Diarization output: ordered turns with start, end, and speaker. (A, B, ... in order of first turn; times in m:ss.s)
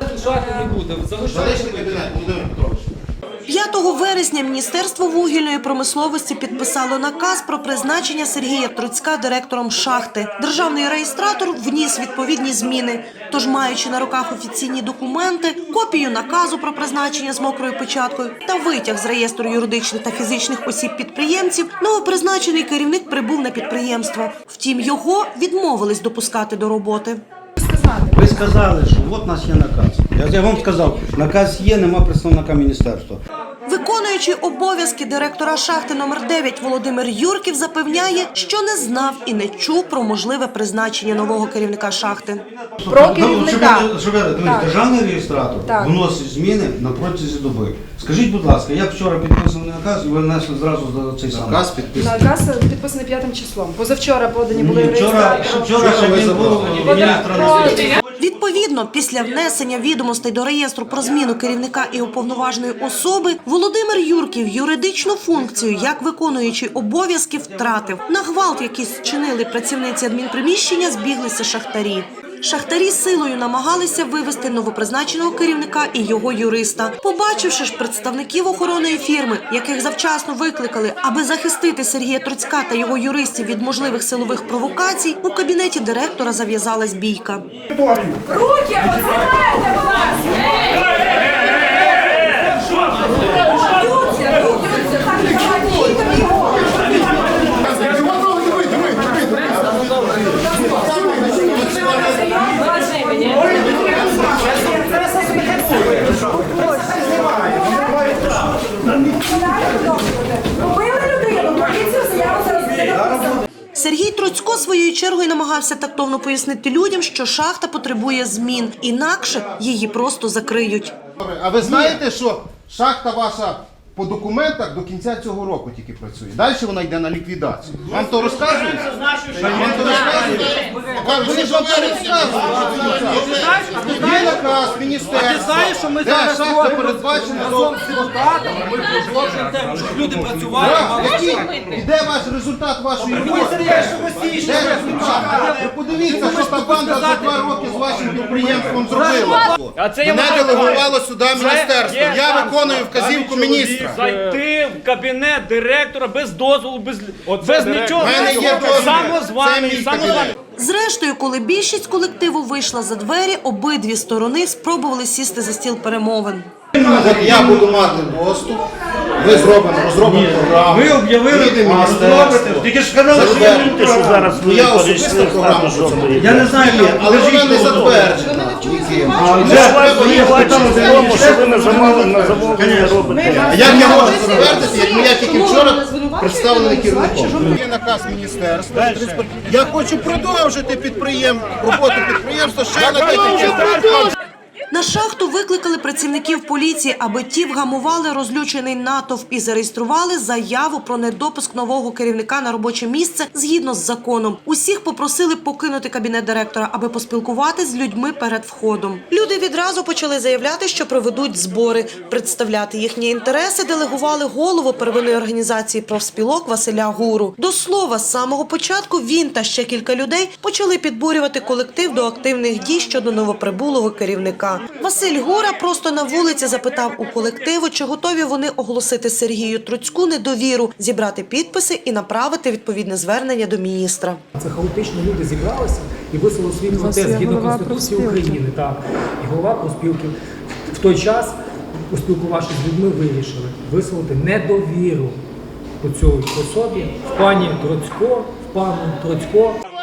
0:01.2-0:02.9 A
0:03.5-0:27.2 B
0:27.6-0:28.2 C
0:28.2-0:33.2 D
0:33.7-0:42.5 B
0:42.8-0:51.8 D
0:42.9-0:43.9 C
0:44.4-0:44.7 C
0:45.6-0:45.9 C
0:51.3-0:52.1 A
0:52.0-0:55.8 C
0:54.5-0:58.0 D
0:55.8-0:56.8 A
0:56.9-0:57.6 C
0:57.9-1:27.5 B
1:28.3-1:30.2 C
1:33.6-1:36.9 C
1:37.5-1:42.4 A
1:42.4-1:43.9 C
1:43.4-1:46.1 A
1:46.4-1:47.0 C
1:46.8-1:47.8 A
1:47.8-1:48.1 C
1:49.2-1:52.9 C
1:53.7-2:01.0 B
2:01.2-2:18.1 A
2:09.4-2:09.8 D
2:20.0-2:20.4 E
2:20.4-2:34.0 A
2:24.2-2:24.8 C
2:29.8-2:30.3 F
2:34.0-2:34.3 E
2:34.1-2:34.4 F
2:37.1-2:38.1 E
2:37.4-2:39.0 F
2:37.9-2:40.4 A
2:38.8-2:39.2 E
2:40.6-2:46.5 B
2:46.8-2:48.1 D
2:46.8-2:48.6 A
2:49.2-3:02.2 A
2:50.0-2:54.4 D
2:53.2-2:58.0 F
2:56.1-2:58.4 D
2:59.1-3:04.8 D
2:59.4-3:04.0 F
3:01.2-3:01.4 C
3:03.4-3:14.1 A
3:03.7-3:07.6 C
3:14.7-3:54.2 B
3:54.4-4:00.2 G
3:56.7-3:58.4 C
4:00.7-4:01.4 G
4:01.9-4:05.2 G
4:05.8-4:09.6 G